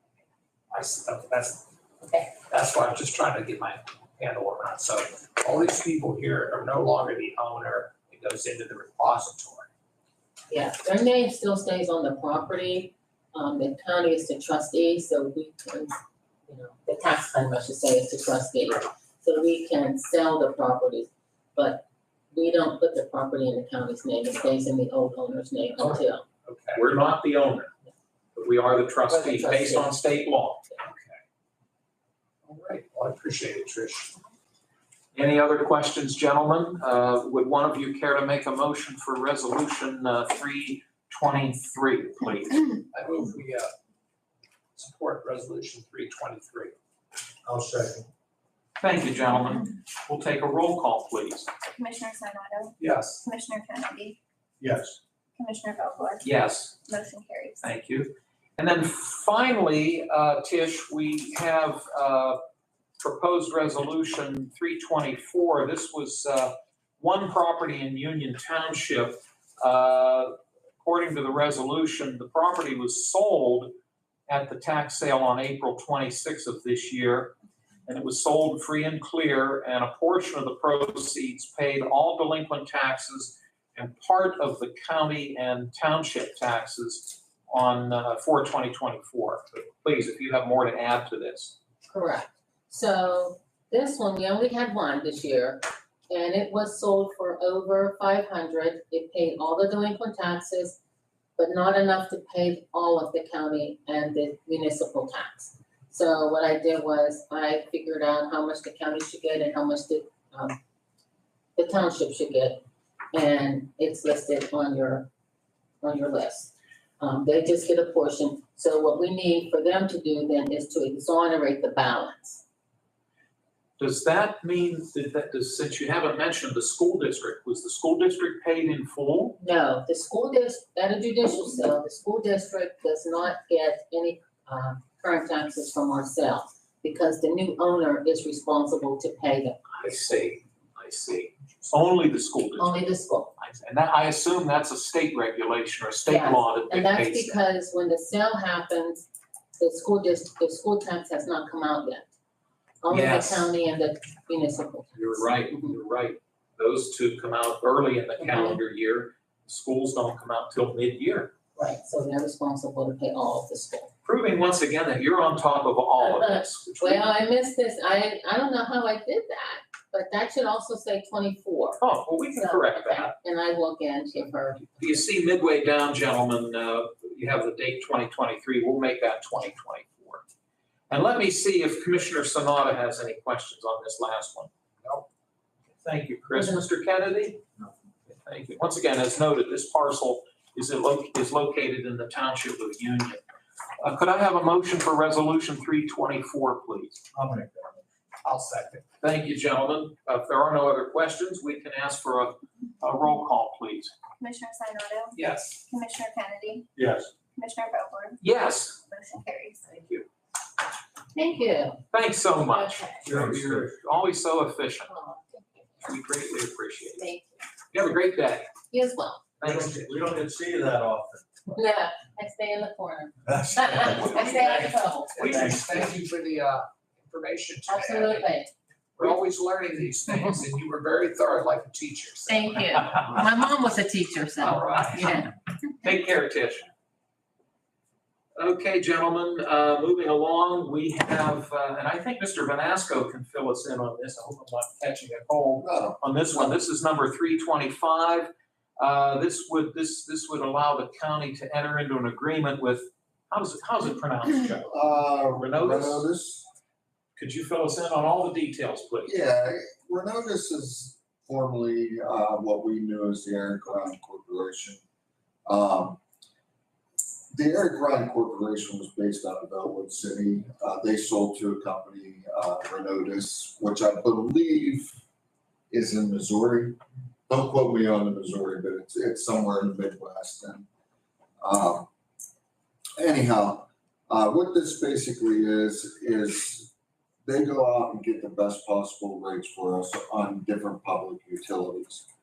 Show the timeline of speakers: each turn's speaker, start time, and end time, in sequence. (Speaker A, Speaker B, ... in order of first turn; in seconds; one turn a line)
Speaker A: 0.7-1.6
Speaker A: 2.4-9.7
Speaker B: 10.5-26.2
Speaker A: 25.8-26.9
Speaker C: 26.7-27.7
Speaker C: 28.3-30.6
Speaker B: 29.1-30.0
Speaker A: 30.8-31.2
Speaker A: 32.4-34.1
Speaker C: 35.1-42.7
Speaker A: 42.9-43.7
Speaker A: 44.8-46.7
Speaker D: 47.5-48.1
Speaker C: 48.8-51.5
Speaker E: 51.8-52.7
Speaker A: 52.8-53.2
Speaker E: 53.3-54.2
Speaker D: 54.6-55.0
Speaker E: 55.4-56.2
Speaker C: 56.2-56.8
Speaker E: 56.9-57.6
Speaker C: 57.6-62.4
Speaker C: 63.0-73.7
Speaker C: 74.3-91.5
Speaker B: 91.9-100.8
Speaker B: 101.4-110.6
Speaker B: 111.5-112.6
Speaker B: 113.1-115.1
Speaker B: 115.8-122.4
Speaker C: 123.8-129.4
Speaker B: 129.4-139.6
Speaker C: 139.7-142.8
Speaker B: 142.6-143.3
Speaker C: 143.4-147.4
Speaker B: 146.1-149.1
Speaker B: 149.6-152.1
Speaker B: 152.8-155.7
Speaker C: 152.9-153.5
Speaker C: 154.9-161.3
Speaker B: 158.2-158.6
Speaker B: 161.6-163.9
Speaker C: 164.0-167.0
Speaker B: 166.0-171.8
Speaker C: 171.8-173.1
Speaker B: 172.3-175.0
Speaker C: 174.8-180.2
Speaker C: 180.9-184.5
Speaker C: 185.8-187.4
Speaker C: 188.2-193.2
Speaker C: 193.8-197.0
Speaker D: 197.1-197.8
Speaker A: 198.2-198.8
Speaker C: 199.0-203.9
Speaker E: 204.2-205.1
Speaker A: 205.1-205.7
Speaker E: 205.7-206.7
Speaker D: 206.8-207.1
Speaker E: 207.3-208.2
Speaker C: 208.2-208.8
Speaker E: 208.8-209.6
Speaker C: 209.7-210.1
Speaker B: 211.1-211.8
Speaker C: 211.9-214.9
Speaker B: 212.5-212.9
Speaker D: 213.0-213.7
Speaker B: 214.9-215.7
Speaker C: 215.8-217.1
Speaker C: 217.7-218.5
Speaker B: 218.7-219.2
Speaker C: 219.4-219.7
Speaker D: 219.4-221.2
Speaker B: 221.5-225.4
Speaker D: 223.3-224.3
Speaker A: 224.1-228.3
Speaker D: 225.2-225.9
Speaker B: 227.7-228.5
Speaker A: 229.0-232.7
Speaker B: 232.2-235.3
Speaker A: 234.4-235.1
Speaker C: 234.5-235.2
Speaker C: 235.8-236.7
Speaker C: 238.4-248.3
Speaker F: 245.6-246.5
Speaker C: 248.8-256.1
Speaker F: 254.6-256.4
Speaker C: 257.1-259.1
Speaker F: 259.0-264.8
Speaker F: 265.5-266.0
Speaker F: 267.3-275.0
Speaker F: 275.7-276.8
Speaker F: 277.3-280.6
Speaker F: 281.4-281.9
Speaker F: 283.0-286.7
Speaker F: 287.2-292.1